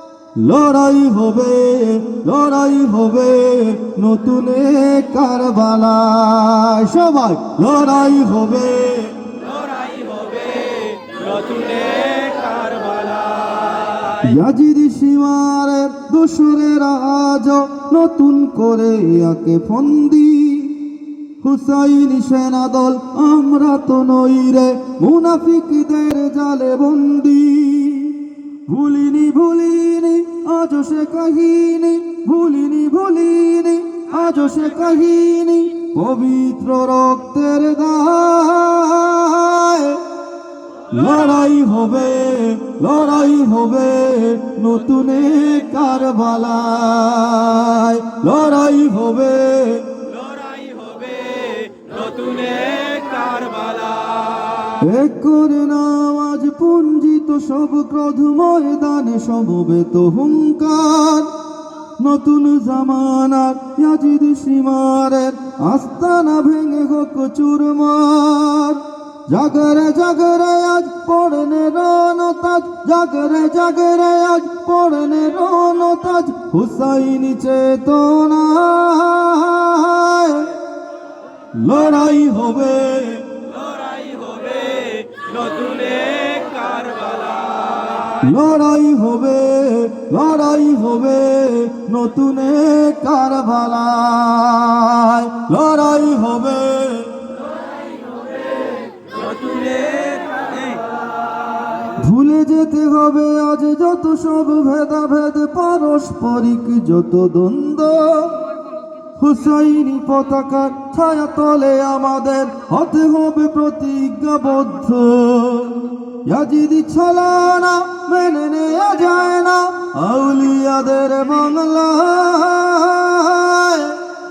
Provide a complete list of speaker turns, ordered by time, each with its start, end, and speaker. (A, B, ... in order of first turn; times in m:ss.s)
0:00.4-0:09.2 A
0:09.8-0:13.7 B
0:14.1-0:20.8 A
0:21.4-0:40.0 A
0:40.9-0:49.9 A
0:50.4-0:54.6 B
0:54.8-1:01.3 A
1:02.0-1:20.5 A
1:21.5-1:23.3 A
1:23.8-1:28.0 B
1:28.1-1:37.1 A
1:39.3-1:40.8 B
1:42.0-1:48.5 A
1:49.2-2:04.0 A